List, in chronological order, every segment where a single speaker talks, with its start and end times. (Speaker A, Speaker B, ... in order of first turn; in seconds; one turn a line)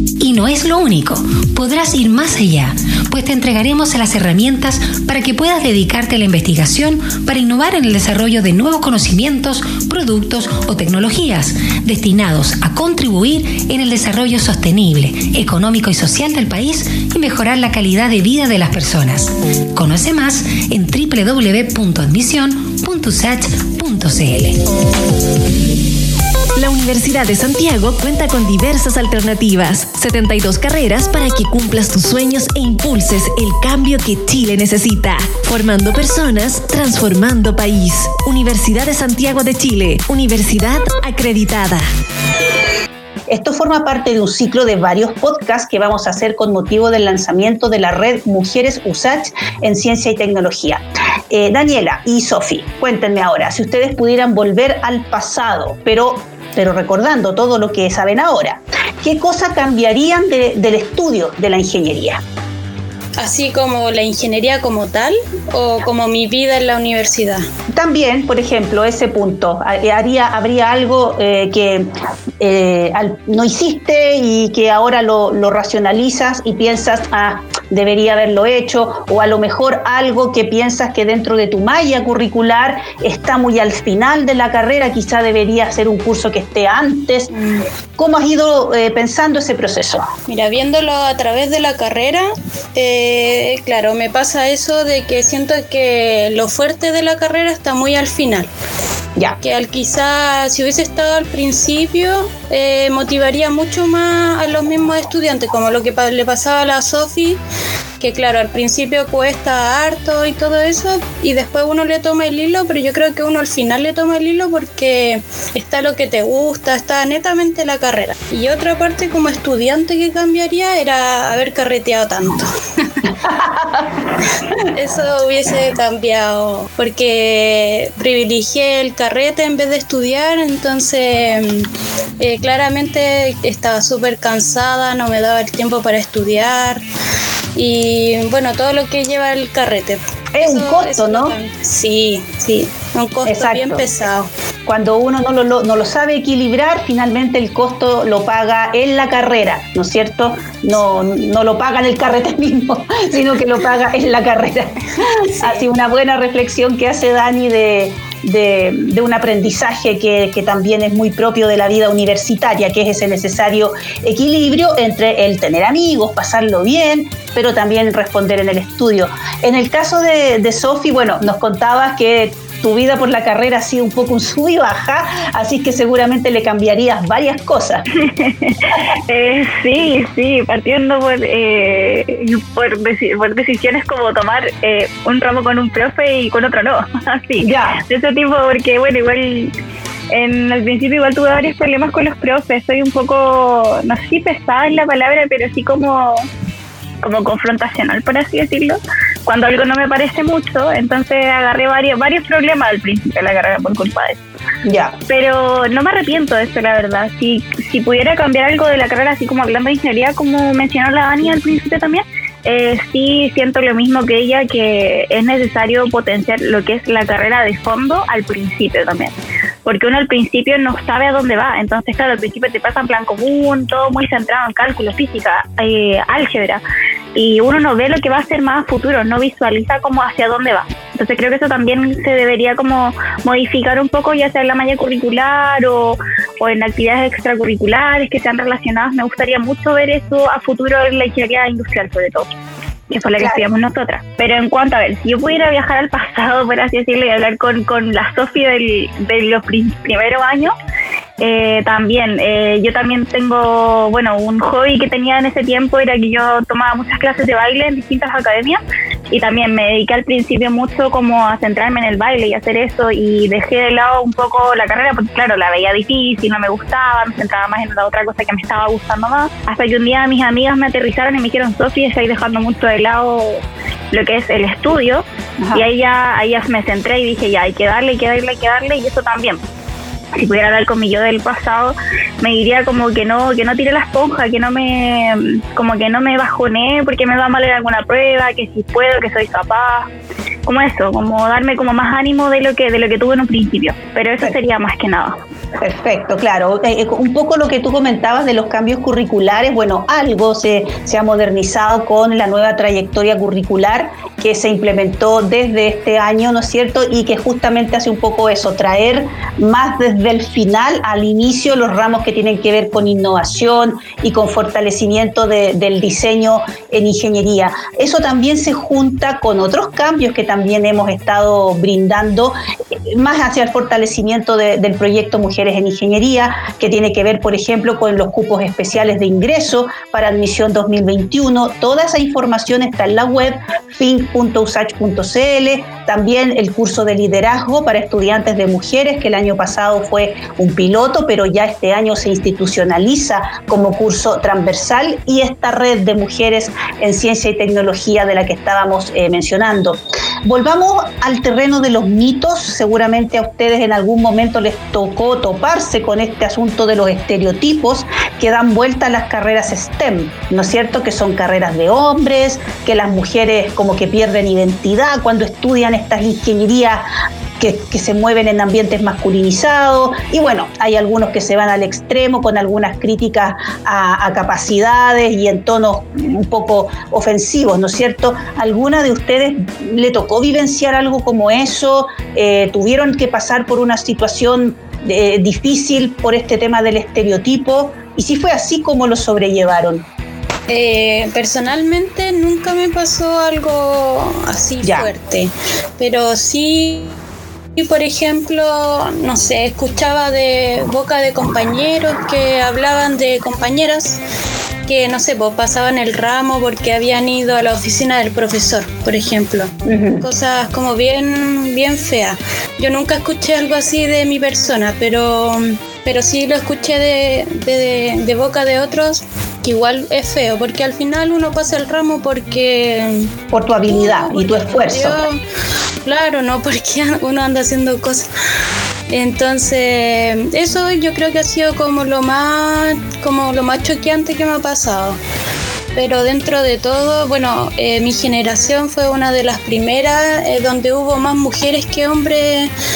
Speaker A: 0.2-24.6
Speaker B: 26.6-41.8
Speaker C: 43.3-62.2
Speaker D: 63.2-67.4
Speaker C: 67.7-71.9
Speaker C: 72.4-87.3
Speaker D: 87.3-87.6
Speaker C: 88.0-90.1
Speaker D: 90.3-98.5
Speaker D: 99.4-107.4
Speaker D: 108.0-122.5
Speaker C: 123.2-123.8
Speaker D: 124.6-131.7
Speaker D: 132.2-136.8
Speaker D: 137.5-144.3
Speaker C: 140.3-141.3
Speaker C: 143.2-143.9
Speaker C: 144.7-177.8
Speaker E: 178.1-189.5
Speaker C: 187.4-187.8
Speaker E: 190.1-196.3
Speaker E: 197.0-204.2
Speaker C: 204.6-205.0
Speaker E: 205.1-219.1
Speaker E: 219.6-226.6
Speaker E: 227.1-242.3
Speaker E: 242.9-250.5
Speaker C: 243.2-243.4
Speaker E: 251.2-279.4
Speaker C: 275.4-275.7
Speaker E: 280.1-289.9
Speaker E: 290.4-295.2
Speaker C: 295.6-322.4
Speaker C: 322.9-366.9
Speaker C: 367.4-389.9
Speaker D: 390.5-396.9
Speaker C: 394.6-394.9
Speaker D: 397.6-404.0
Speaker D: 404.6-423.1
Speaker C: 409.6-410.0
Speaker C: 423.3-425.0
Speaker D: 423.7-425.2
Speaker D: 425.8-428.1
Speaker D: 428.9-435.0
Speaker D: 435.7-442.5